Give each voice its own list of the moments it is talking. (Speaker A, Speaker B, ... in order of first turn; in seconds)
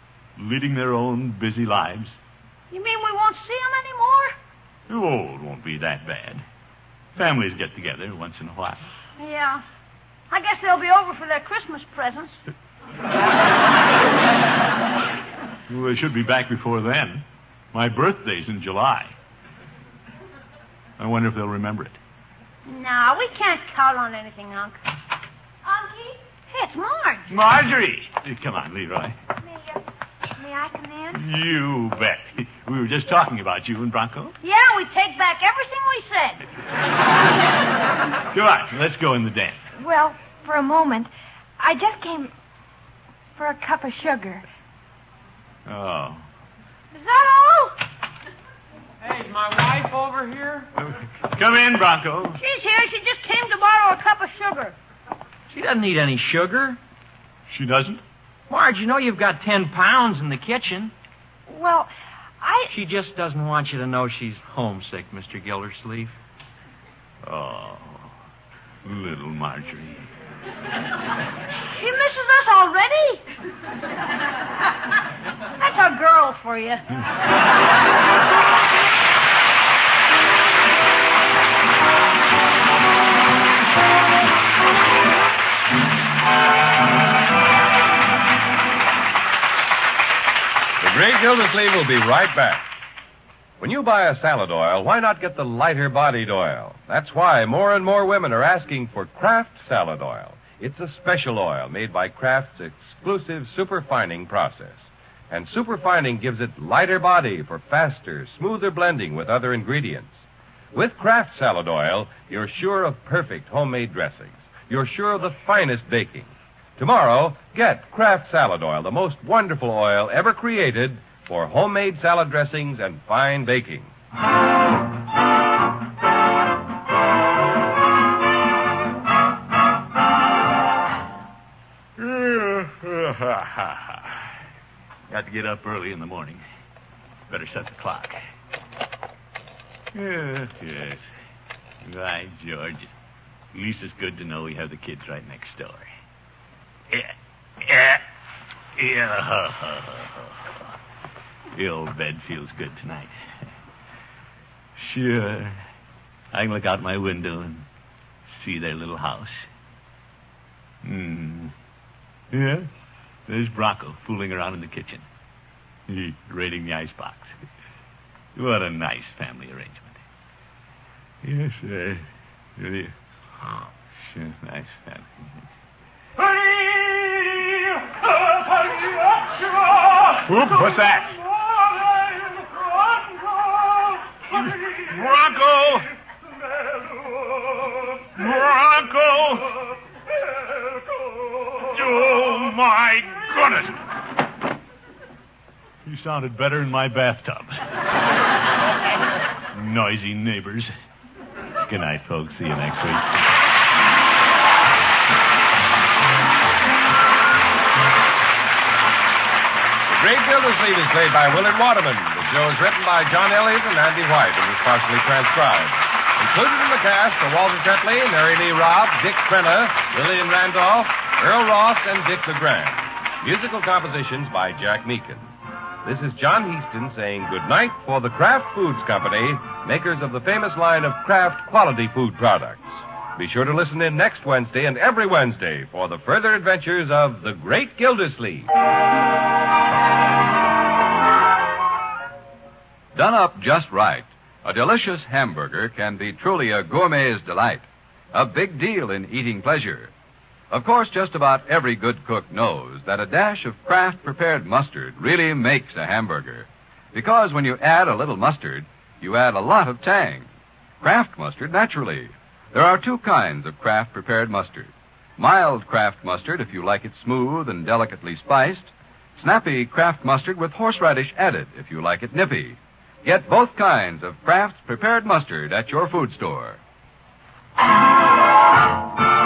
Speaker A: 0.4-2.1, 4.9-6.4, 7.2-8.9, 15.7-19.1, 21.0-22.0, 27.3-29.2, 31.1-34.4, 38.3-39.6, 45.7-46.2, 50.8-52.4, 57.5-58.0, 67.2-68.1, 68.8-70.1, 132.0-134.2, 135.1-136.4, 137.3-138.2, 139.9-141.1, 141.8-142.9, 143.5-145.9, 146.9-148.0, 148.8-150.4, 151.5-153.2, 154.8-155.6, 156.3-157.7, 158.3-159.5, 160.8-161.5, 162.3-162.7, 163.3-165.1, 165.9-167.4, 168.4-170.0, 171.2-172.1, 172.6-172.9, 174.0-175.4, 176.2-179.2, 179.8-181.2, 184.2-185.9, 188.0-189.7, 191.4-193.8, 195.8-197.6, 199.5-200.7, 201.6-203.3
Speaker B: 2.7-4.3, 9.2-9.6, 10.3-12.4, 22.7-24.8, 25.6-27.4, 29.4-29.8, 30.4-31.2, 34.4-36.4, 46.9-47.8, 52.4-54.8, 61.5-62.7, 71.7-73.2, 75.6-76.9
Speaker C: 39.8-42.3, 43.4-44.4
Speaker D: 49.0-50.7, 55.5-56.8, 58.5-60.9, 62.7-66.2
Speaker E: 90.8-92.7, 93.6-110.2, 110.7-123.9, 209.9-225.3, 225.8-238.5
Speaker F: 242.9-249.9, 250.5-260.3, 260.8-276.6